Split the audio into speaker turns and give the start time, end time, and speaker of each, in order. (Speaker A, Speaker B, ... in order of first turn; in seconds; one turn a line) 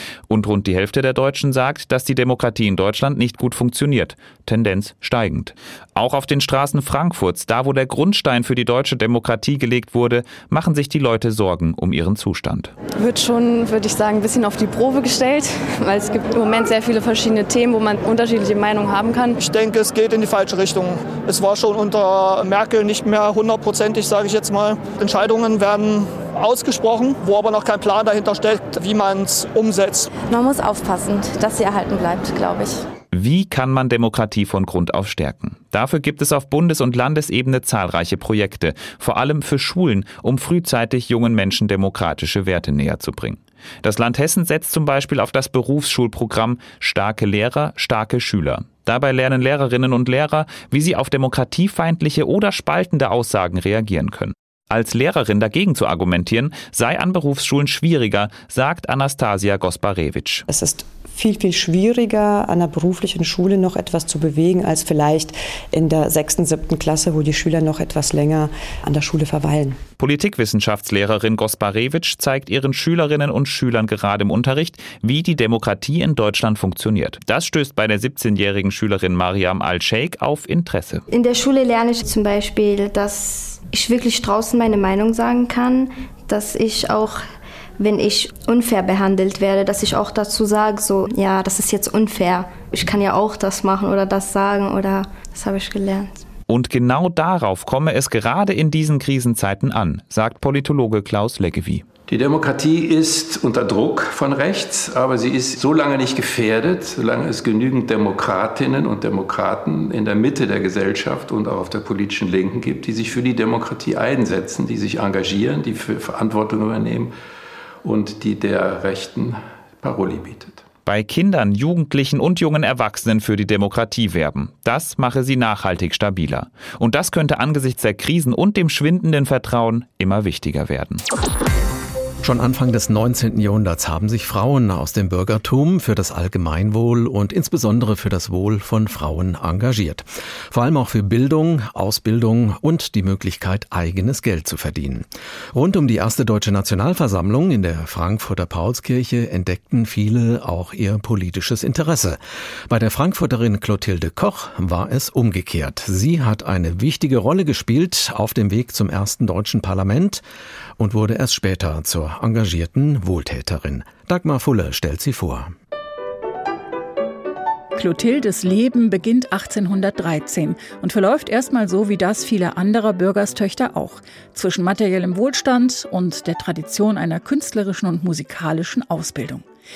Speaker A: 0.3-12.7
Speaker B: 13.0-19.4
Speaker C: 19.4-30.1
Speaker B: 30.3-32.9
Speaker A: 33.1-60.4
Speaker D: 60.5-69.8
Speaker A: 70.0-81.0
Speaker E: 81.1-87.2
Speaker E: 87.8-96.3
Speaker A: 96.5-101.9
Speaker F: 102.1-117.1
Speaker F: 117.8-120.6
Speaker A: 120.9-131.0
Speaker G: 132.2-160.2
Speaker G: 160.8-165.5
Speaker H: 167.8-179.4